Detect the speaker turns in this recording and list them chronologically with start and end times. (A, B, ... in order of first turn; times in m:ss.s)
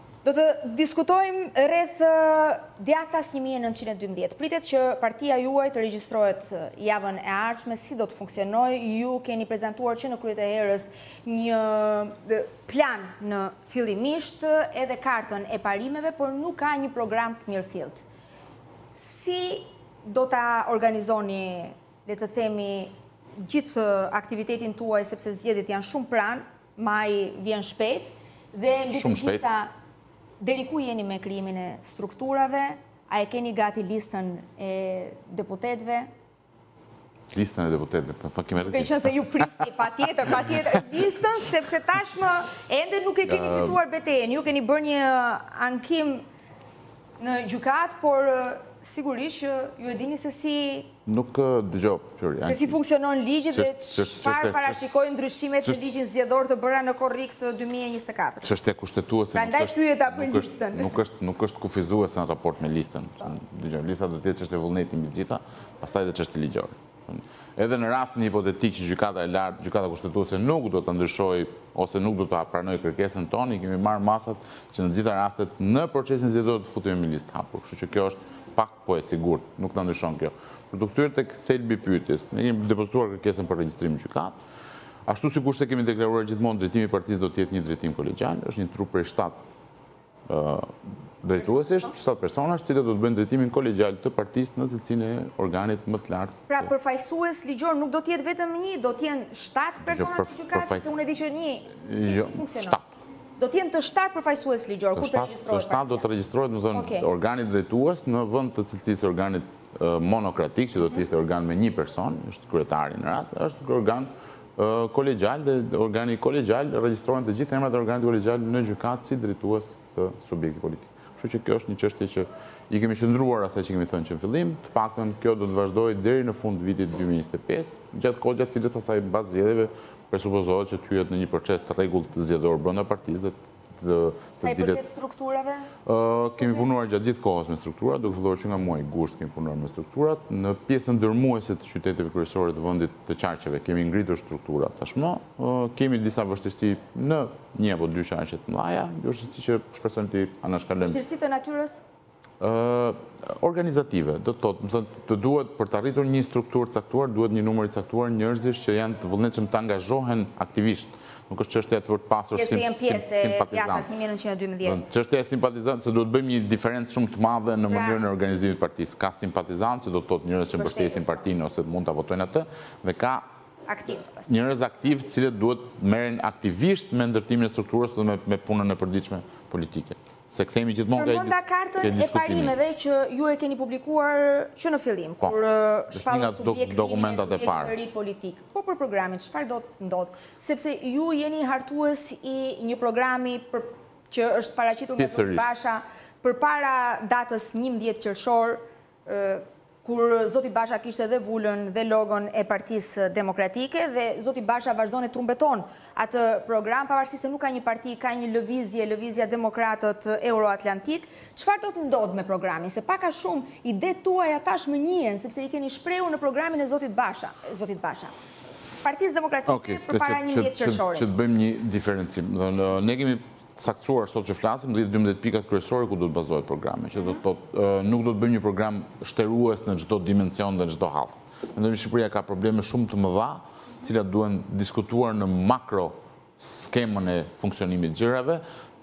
0:00.2-0:18.0 A
0:19.0-0:29.7 A
0:28.9-0:29.4 B
0:30.4-0:36.1 A
0:37.3-0:39.1 B
0:38.6-0:46.2 A
0:43.2-0:43.8 B
0:47.2-0:50.9 A
0:51.0-0:52.8 B
0:52.4-0:58.5 A
0:53.5-0:54.8 B
0:58.4-1:24.4 B
0:59.3-1:01.0 A
1:25.1-1:29.4 B
1:30.3-1:36.7 B
1:31.4-1:31.9 A
1:36.5-1:42.8 A
1:39.8-1:40.9 B
1:41.8-1:42.8 B
1:43.4-1:46.0 A
1:44.9-2:14.8 B
1:46.7-1:47.0 A
2:14.4-2:15.7 A
2:15.8-2:31.0 B
2:16.4-2:16.6 A
2:30.8-2:31.8 A
2:32.4-2:43.9 B
2:42.3-2:44.8 A
2:44.6-2:53.2 B
2:47.7-2:48.0 A
2:50.5-2:51.3 A
2:53.7-2:54.3 A
2:54.2-3:02.5 B
3:00.9-3:38.1 A
3:05.9-3:07.7 B
3:15.0-3:15.4 B
3:38.8-3:41.1 A
3:39.5-3:58.4 B